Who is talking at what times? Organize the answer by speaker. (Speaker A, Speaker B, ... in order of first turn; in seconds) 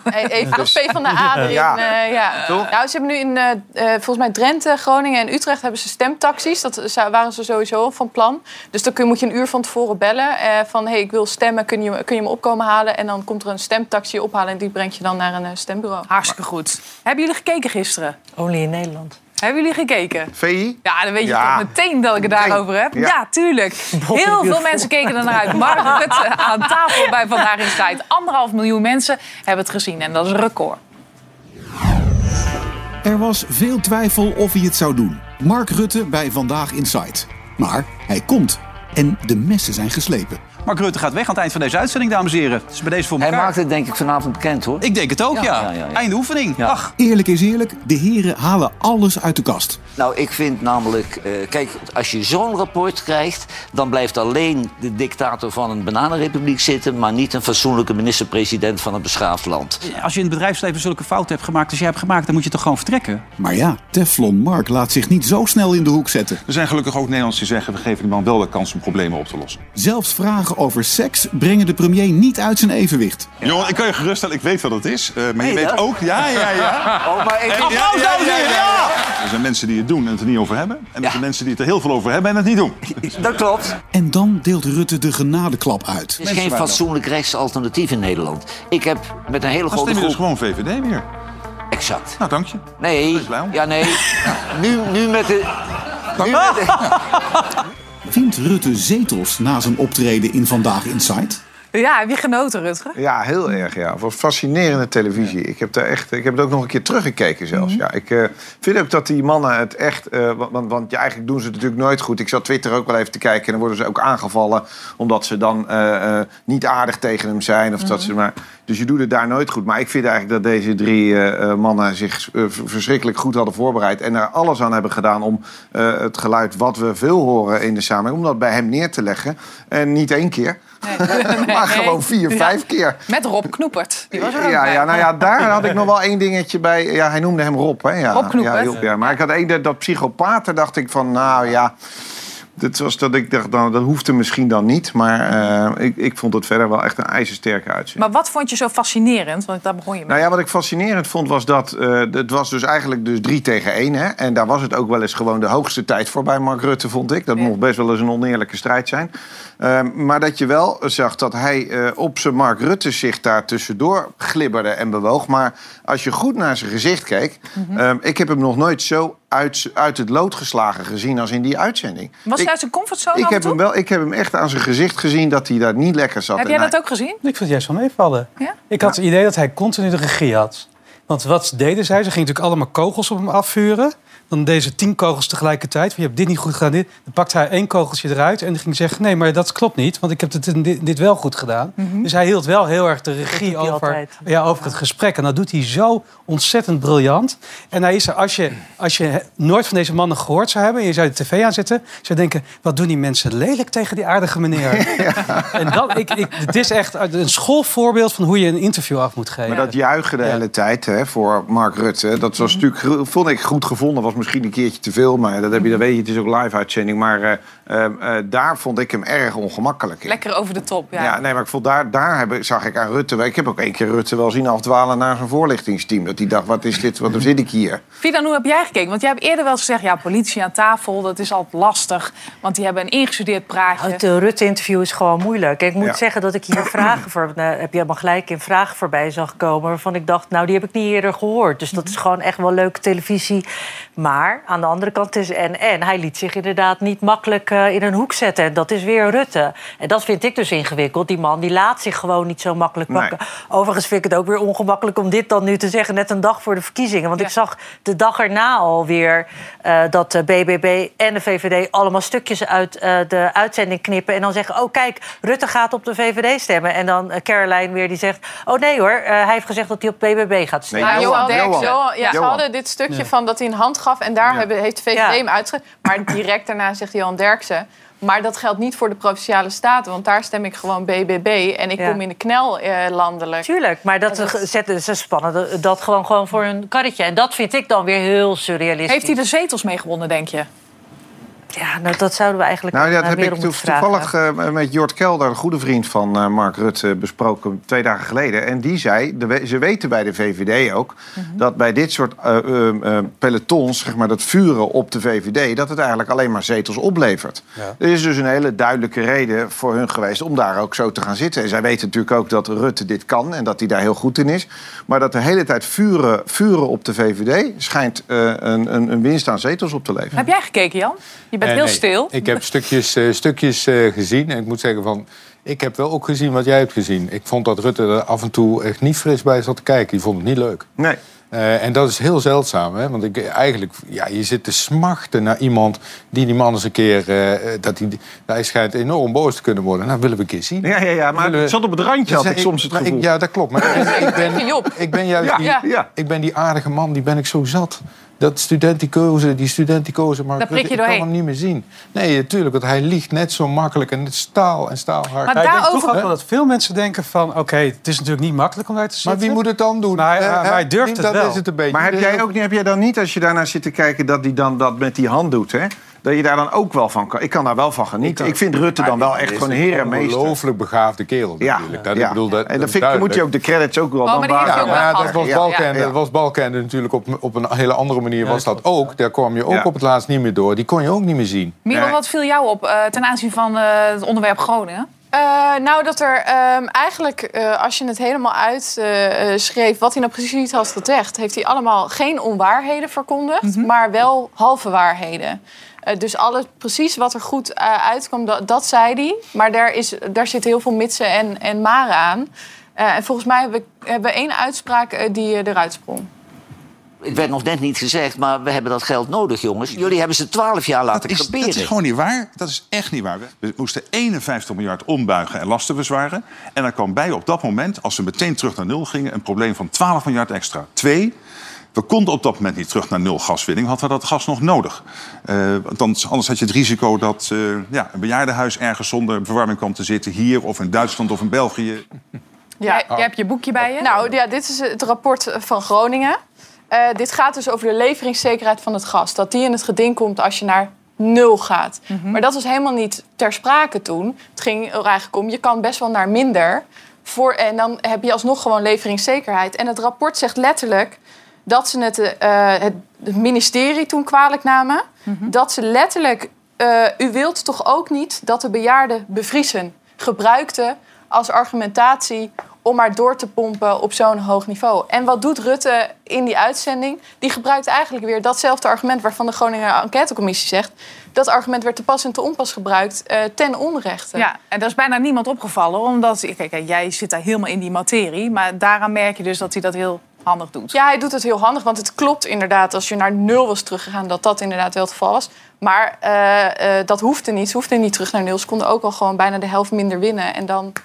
Speaker A: 0.1-16.1, 270.9-283.4, 343.8-344.7, 385.1-406.1, 432.6-432.9, 433.8-436.2, 436.7-474.3, 480.7-490.7
Speaker B: 0.4-2.7, 20.3-21.7, 22.2-23.1, 103.0-133.0, 134.1-141.7, 142.6-148.0, 150.1-172.5, 173.1-176.7, 204.7-205.5, 209.5-220.2, 220.9-227.8, 270.7-272.4, 292.7-320.2, 340.6-343.1, 343.6-344.3, 345.2-345.9, 361.7-370.4, 371.4-375.9, 381.7-382.0
Speaker C: 1.2-1.5, 177.2-209.7, 355.3-361.4
Speaker D: 16.1-18.2, 19.4-20.3, 20.8-30.8, 101.7-103.0, 107.5-107.8, 117.8-118.1, 130.8-135.7, 138.1-139.1, 148.0-150.2, 167.6-167.8, 172.3-173.6, 176.3-177.2, 191.8-192.1, 220.1-221.2, 228.0-234.0, 270.8-272.2, 288.9-290.5, 320.1-322.4, 350.4-351.1, 355.3-356.0, 374.0-375.6, 381.6-384.9, 393.4-393.7, 432.6-433.9, 441.9-442.2, 455.1-455.3, 474.1-480.8
Speaker E: 18.4-19.2, 23.9-27.4, 193.3-194.8, 233.8-243.4, 244.0-271.3, 274.9-275.2, 283.4-289.2, 291.5-294.1
Speaker F: 33.0-40.4, 47.0-49.8, 63.4-66.4, 69.7-73.4, 83.9-86.2, 98.1-101.4
Speaker G: 40.6-43.5, 44.8-46.9, 59.8-63.3
Speaker H: 43.2-46.0, 50.0-59.8, 73.4-73.7, 75.4-75.8, 77.0-79.0, 83.0-83.7, 86.2-90.2, 91.7-92.2, 92.8-95.5, 96.2-96.9, 407.0-411.7
Speaker I: 66.5-69.6, 73.4-83.4, 86.2-86.8, 89.7-91.0, 92.2-93.6, 96.2-97.0, 410.9-421.1, 421.7-431.8
Speaker J: 321.4-330.7, 331.3-356.1, 359.0-362.2, 368.0-373.2, 374.4-381.6